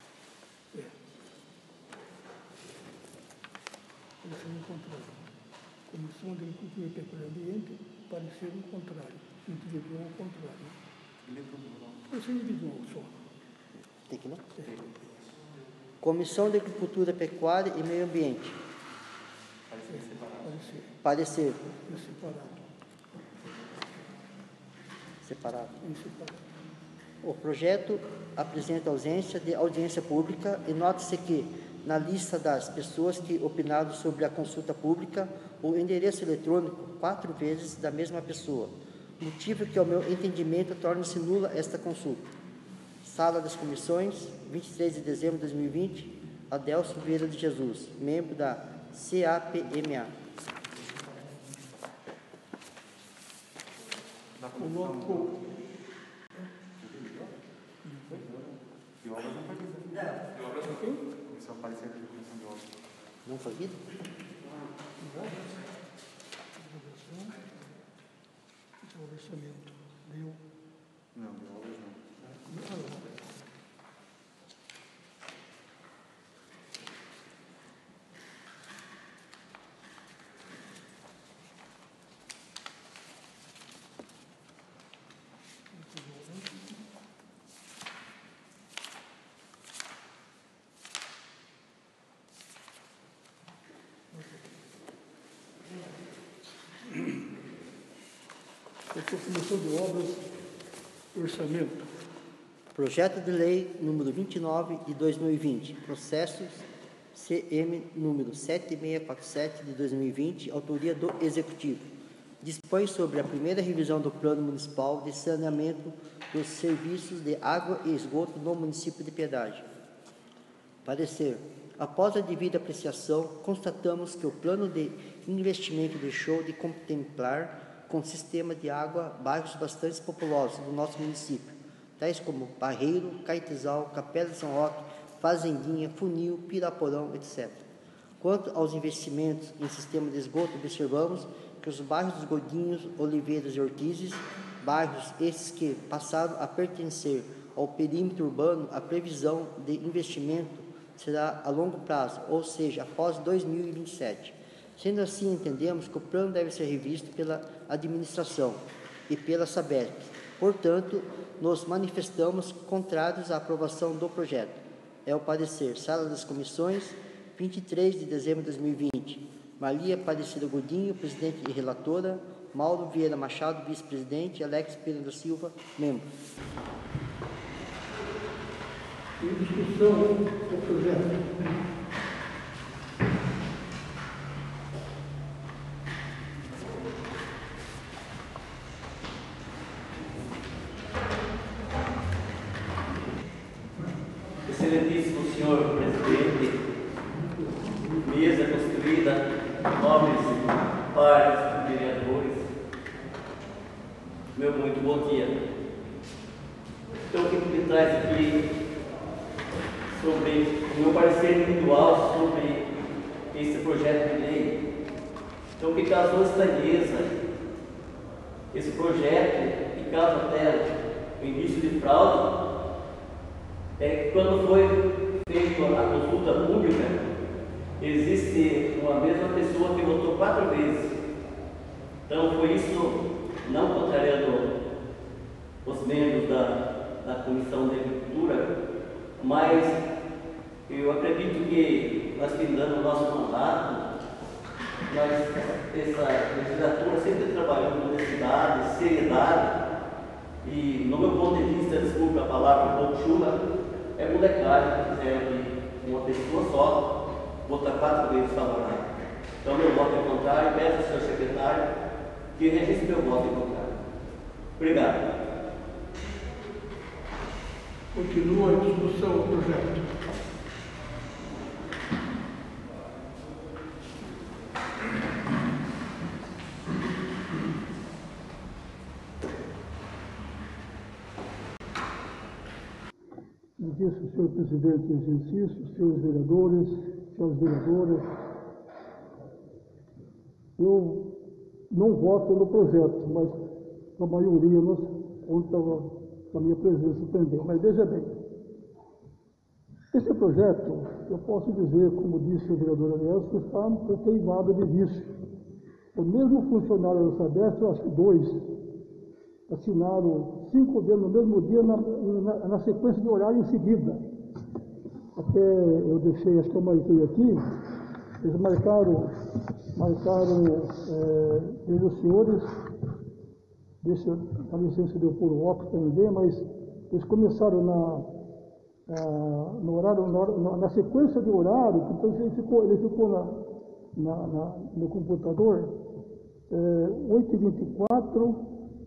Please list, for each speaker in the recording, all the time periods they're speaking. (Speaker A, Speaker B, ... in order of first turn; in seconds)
Speaker A: 4.2-5.2, 5.9-10.8, 12.1-13.2, 19.9-20.9, 21.7-22.6, 25.8-26.4, 54.6-55.3, 57.9-58.2, 60.7-61.0, 65.0-65.5, 66.6-67.5, 68.8-70.4, 72.5-73.1, 85.9-86.5, 98.9-100.3, 101.1-101.9, 179.2-181.4, 267.9-269.9, 283.6-288.1, 290.6-291.2, 291.7-293.4, 294.0-298.1, 299.9-305.1, 305.9-308.5, 309.5-314.0, 315.2-317.4, 318.2-319.1, 319.8-322.5, 323.8-328.1, 328.9-333.4, 334.0-335.8, 336.5-338.5
Speaker B: 11.3-12.0, 14.7-15.0, 19.7-20.6, 54.4-55.4, 56.8-57.3, 58.1-62.7, 71.2-72.2
Speaker C: 14.1-14.4, 16.0-18.6, 21.0-21.6, 25.2-25.8, 27.2-42.3, 43.0-50.1, 63.2-63.8, 102.7-111.9, 112.4-119.7, 120.8-137.7, 138.2-176.1
Speaker D: 194.5-196.6, 198.0-202.5, 204.3-205.4, 207.1-208.4, 209.9-212.6, 213.3-214.6, 215.6-217.2, 218.5-220.7, 221.2-222.3, 223.8-227.0, 227.8-230.9, 232.1-234.5, 235.7-238.5, 239.2-239.8, 240.7-243.9, 244.9-249.5, 250.4-253.4, 254.0-256.8, 257.5-258.8, 259.4-261.6, 262.4-263.7, 264.6-265.0